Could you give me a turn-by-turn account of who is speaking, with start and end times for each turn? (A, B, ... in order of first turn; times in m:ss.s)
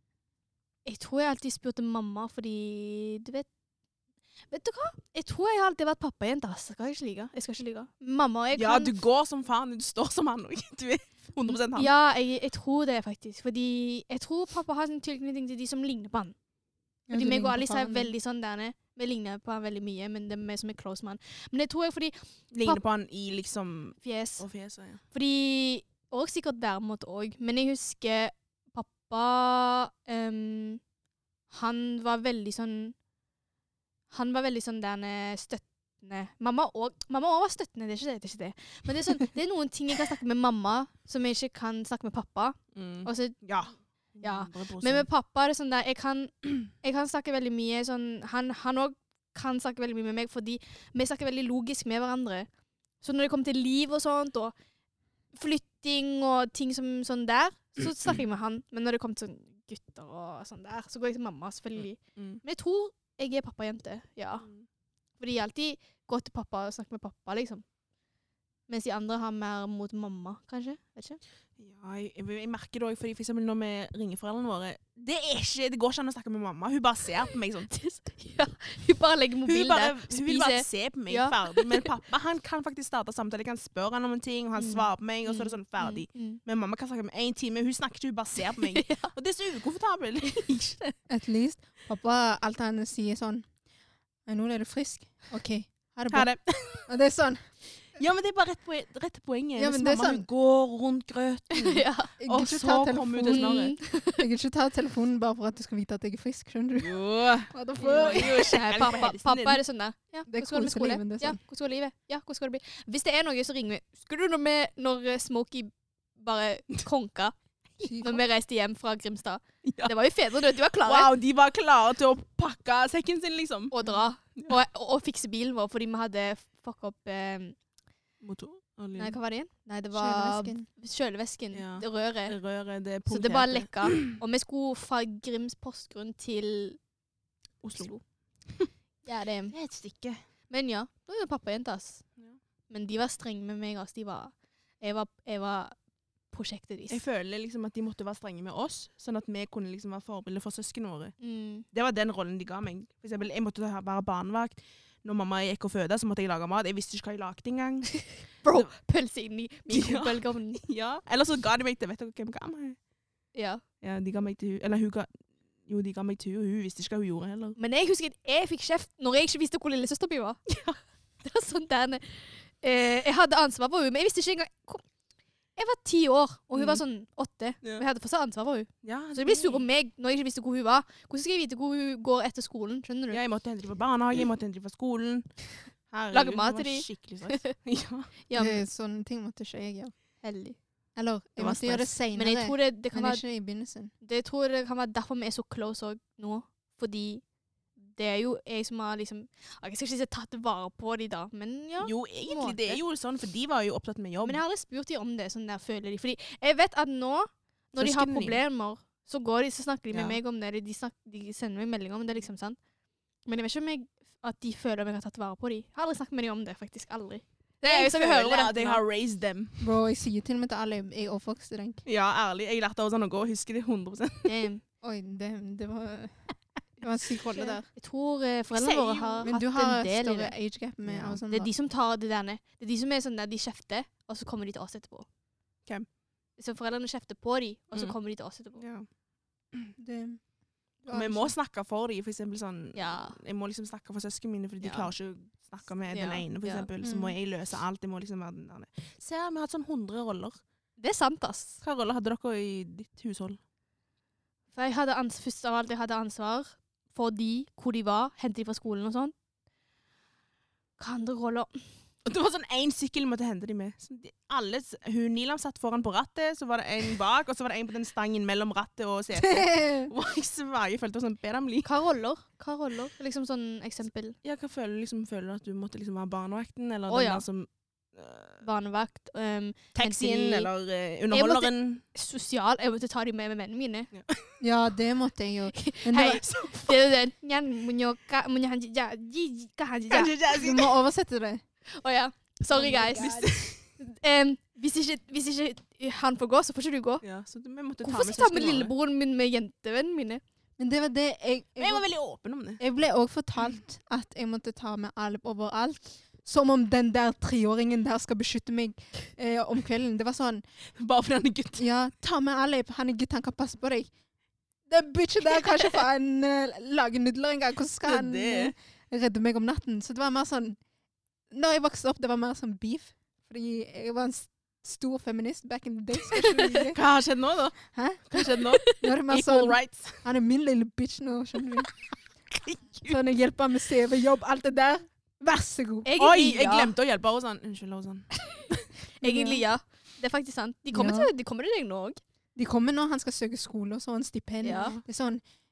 0:00.8-0:03.5 A
0:04.5-0:08.9 A
0:08.5-0:11.9 B
0:11.7-0:16.3 A
0:17.1-0:18.1 C
0:17.1-0:22.8 A
0:22.5-0:25.0 B
0:24.0-0:24.5 A
0:25.1-0:30.8 A
0:31.5-0:33.0 A
0:34.1-0:43.4 A
0:42.7-0:45.1 B
0:44.2-0:52.5 A
0:53.0-0:54.5 A
0:55.3-1:04.4 A
1:01.8-1:02.4 B
1:05.2-1:07.6 A
1:08.7-1:11.2 A
1:11.6-1:17.7 B
1:17.7-1:21.9 A
1:19.4-1:30.8 B
1:24.6-1:26.4 A
1:28.4-1:29.1 A
1:30.3-1:30.9 A
1:31.1-1:33.5 C
1:34.2-1:36.3 C
1:36.1-1:36.9 B
1:36.8-1:37.4 C
1:37.9-1:43.7 B
1:39.6-1:40.2 C
1:41.5-1:42.1 A
1:42.2-1:43.6 C
1:43.3-1:44.2 A
1:44.1-1:47.0 C
1:46.8-1:49.6 B
1:47.5-1:48.6 C
1:47.8-2:01.1 A
1:50.3-1:51.4 C
1:57.8-1:58.2 C
1:59.6-1:59.9 B
2:00.8-2:03.7 B
2:03.7-2:07.6 A
2:08.2-2:09.2 B
2:09.0-2:12.4 A
2:09.9-2:10.7 C
2:11.5-2:14.2 B
2:13.1-2:16.8 A
2:17.6-2:18.7 B
2:17.7-2:18.0 A
2:19.0-2:19.5 A
2:19.5-2:20.2 B
2:20.5-2:22.0 A
2:22.7-2:25.8 A
2:26.3-2:27.0 A
2:26.9-2:38.7 B
2:31.2-2:31.6 A
2:38.4-2:40.6 A
2:39.7-2:42.8 B
2:43.3-2:43.6 A
2:43.8-2:45.1 B
2:45.6-2:47.6 B
2:47.6-2:50.4 A
2:50.5-2:50.8 B
2:51.2-2:54.8 A
2:55.6-3:03.2 A
2:56.5-2:56.8 B
2:58.8-2:59.6 B
3:03.1-3:08.1 B
3:06.1-3:07.6 A
3:08.2-3:08.6 A
3:08.3-3:09.9 C
3:10.2-3:10.6 A
3:11.0-3:13.9 C
3:11.4-3:11.9 B
3:12.1-3:13.2 A
3:14.0-3:17.2 A
3:17.8-3:22.8 A
3:21.8-3:24.4 B
3:24.2-3:32.6 A
3:27.7-3:28.4 B
3:29.9-3:30.2 B
3:33.2-3:38.8 A
3:37.6-3:39.6 B
3:39.6-3:41.8 C
3:41.8-3:44.4 B
3:44.2-3:44.6 A
3:44.8-3:47.7 C
3:47.7-3:50.3 A
3:48.5-3:49.2 B
3:49.2-3:51.5 C
3:50.8-3:51.2 B
3:51.3-3:55.1 A
3:56.4-3:58.6 A
3:58.6-3:58.9 B
3:59.8-4:00.2 C
4:00.8-4:01.3 C
4:00.9-4:10.4 B
4:02.7-4:03.2 A
4:04.6-4:04.9 A
4:05.9-4:06.7 A
4:06.8-4:07.1 C
4:10.8-4:11.6 A
4:11.6-4:13.4 B
4:14.5-4:19.1 A
4:20.8-4:21.6 A
4:22.0-4:31.7 B
4:29.2-4:29.9 C
4:31.6-4:34.1 A
4:34.2-4:38.4 B
4:36.9-4:37.2 A
4:38.4-4:40.5 A
4:39.7-4:41.8 B
4:41.1-4:43.9 A
4:43.9-4:44.3 B
4:44.4-4:46.2 C
4:45.5-4:50.1 A
4:46.2-4:46.8 B
4:49.9-4:50.7 B
4:50.3-4:51.4 C
4:51.8-4:57.0 A
4:52.5-4:53.6 B
4:57.0-4:58.7 B
4:57.8-5:00.2 A
5:00.6-5:01.8 C
5:01.6-5:02.6 B
5:02.6-5:10.4 C
5:10.8-5:11.6 B
5:11.6-5:13.9 C
5:14.7-5:20.6 C
5:17.8-5:18.5 B
5:21.3-5:26.8 C
5:26.6-5:30.0 B
5:27.7-5:28.1 C
5:28.6-5:31.7 C
5:32.4-5:33.0 B
5:32.8-5:35.9 C
5:35.8-5:36.7 A
5:36.0-5:38.1 B
5:39.0-5:42.0 A
5:39.0-5:39.4 C
5:40.7-5:41.1 C
5:42.3-5:45.2 C
5:44.4-5:44.8 A